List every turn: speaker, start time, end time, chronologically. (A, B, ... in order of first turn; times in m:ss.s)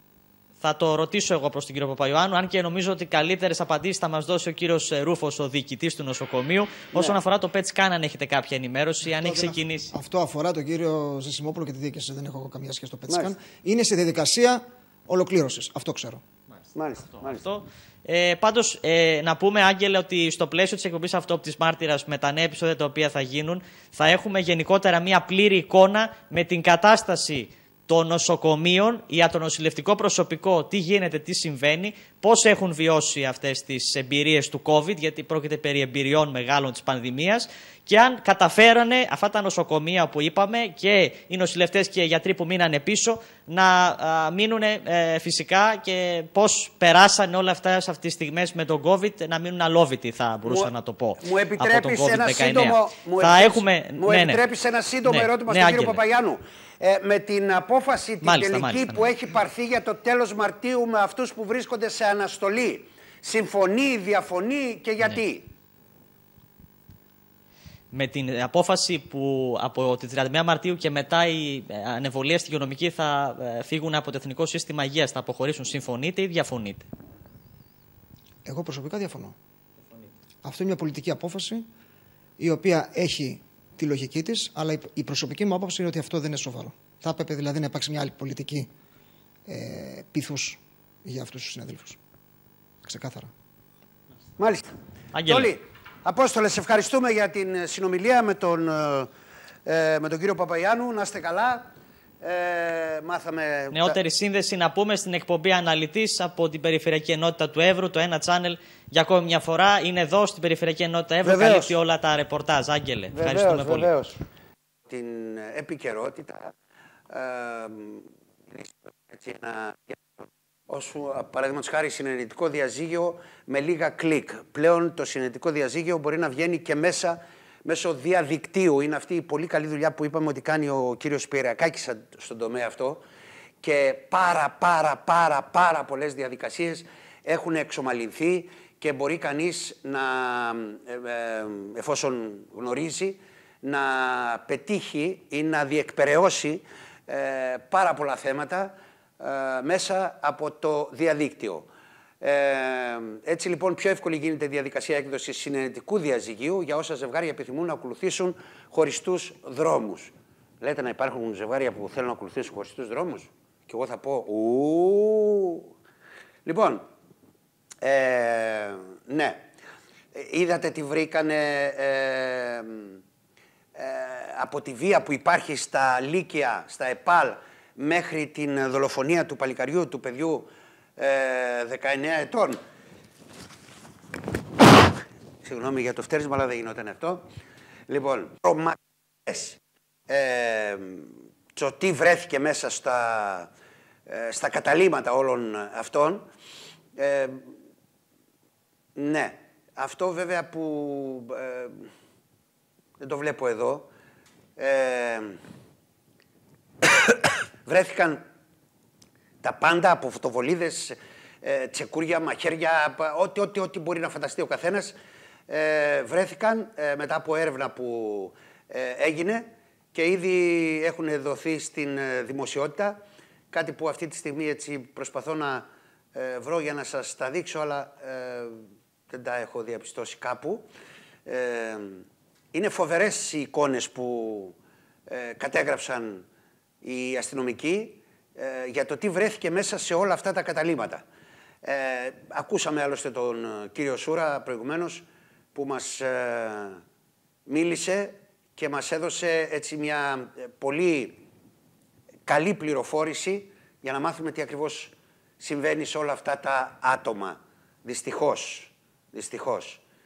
0:00.6-0:09.9 A
0:06.9-0:07.2 B
0:09.0-0:16.2 C
0:13.1-0:13.3 B
0:16.5-0:54.4 A
0:16.7-0:17.5 B
0:50.4-1:05.5 B
0:55.0-0:56.0 A
0:58.2-0:59.2 A
1:07.9-1:16.9 A
1:18.4-1:19.4 C
1:20.4-1:21.6 C
1:22.4-1:28.7 C
1:29.5-1:32.0 C
1:32.8-1:33.3 C
1:34.4-1:34.7 B
1:35.1-1:35.5 A
1:35.2-1:39.1 B
1:39.6-1:44.0 B
1:43.7-1:53.9 A
1:51.2-1:51.8 B
1:53.1-1:54.2 B
1:54.9-1:56.5 B
1:57.1-2:13.0 B
2:13.6-2:31.7 B
2:32.2-2:45.7 B
2:46.4-2:46.9 B
2:47.8-2:49.5 B
2:50.1-2:53.0 B
2:53.7-3:02.6 B
3:05.4-3:07.2 B
3:07.9-3:13.5 B
3:14.1-3:16.3 B
3:17.0-3:17.5 B
3:19.0-3:21.9 B
3:23.0-3:23.9 B
3:24.6-3:25.4 B
3:26.8-3:28.2 B
3:29.4-3:34.9 B
3:35.5-3:50.7 B
3:51.2-3:54.5 B
3:55.1-3:56.2 B
3:56.8-4:01.0 B
4:01.6-4:06.8 B
4:07.5-4:11.2 B
4:12.2-4:19.8 B